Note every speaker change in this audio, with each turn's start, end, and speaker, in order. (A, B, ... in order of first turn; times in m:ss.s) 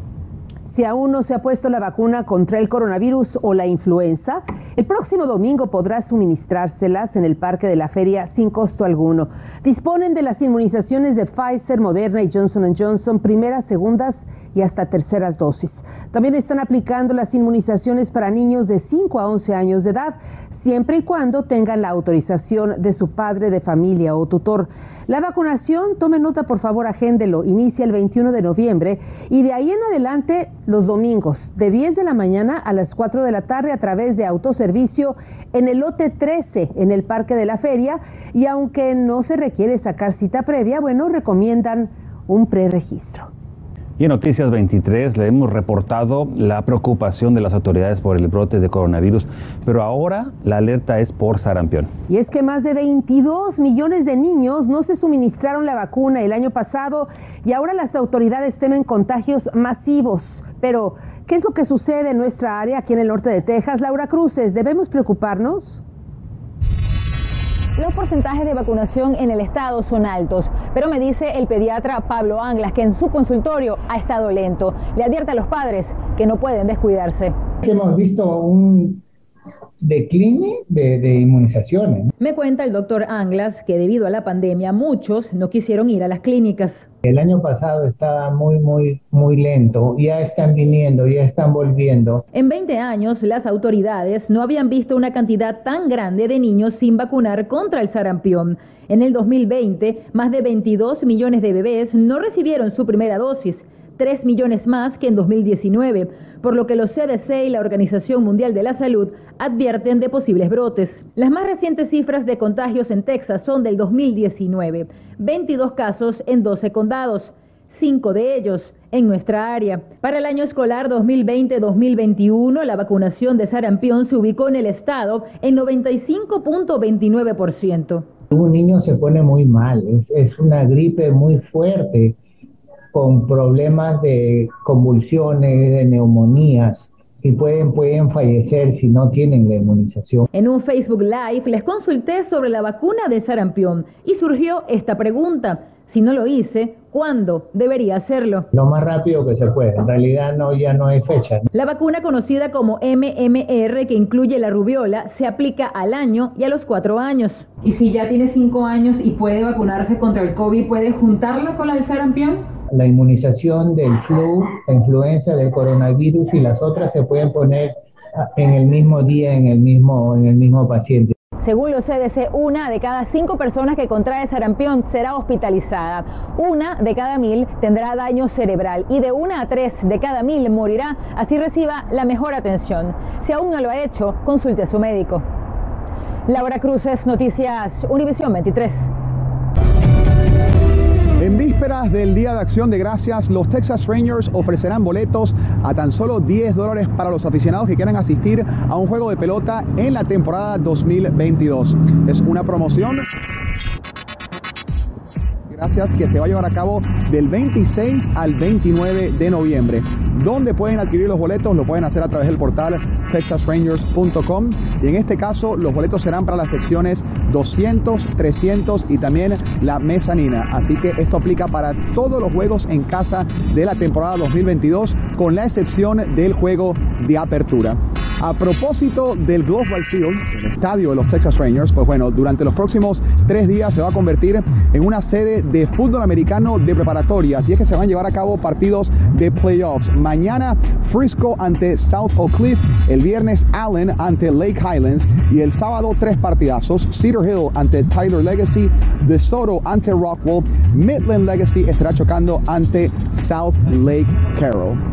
0:00.6-0:43.3 A
0:44.0-0:51.9 B
0:52.1-1:05.8 A
1:07.8-1:17.3 C
1:08.9-1:11.4 D
1:14.4-1:14.9 D
1:15.8-1:16.3 D
1:17.6-1:19.0 E
1:19.8-1:22.1 E
1:22.2-1:26.8 C
1:27.0-1:32.2 E
1:32.3-2:08.0 C
2:08.3-2:12.2 E
2:12.9-2:20.3 E
2:20.3-2:28.5 C
2:28.5-2:31.4 E
2:31.5-2:42.4 C
2:42.7-2:47.7 E
2:48.4-2:51.1 E
2:51.4-2:54.1 C
2:52.9-3:05.2 D
2:54.8-2:55.8 C
2:56.5-2:58.4 C
2:59.8-3:00.3 C
3:00.9-3:02.5 C
3:06.3-3:08.8 D
3:06.6-3:08.6 C
3:11.2-3:23.0 F
3:25.5-4:14.8 F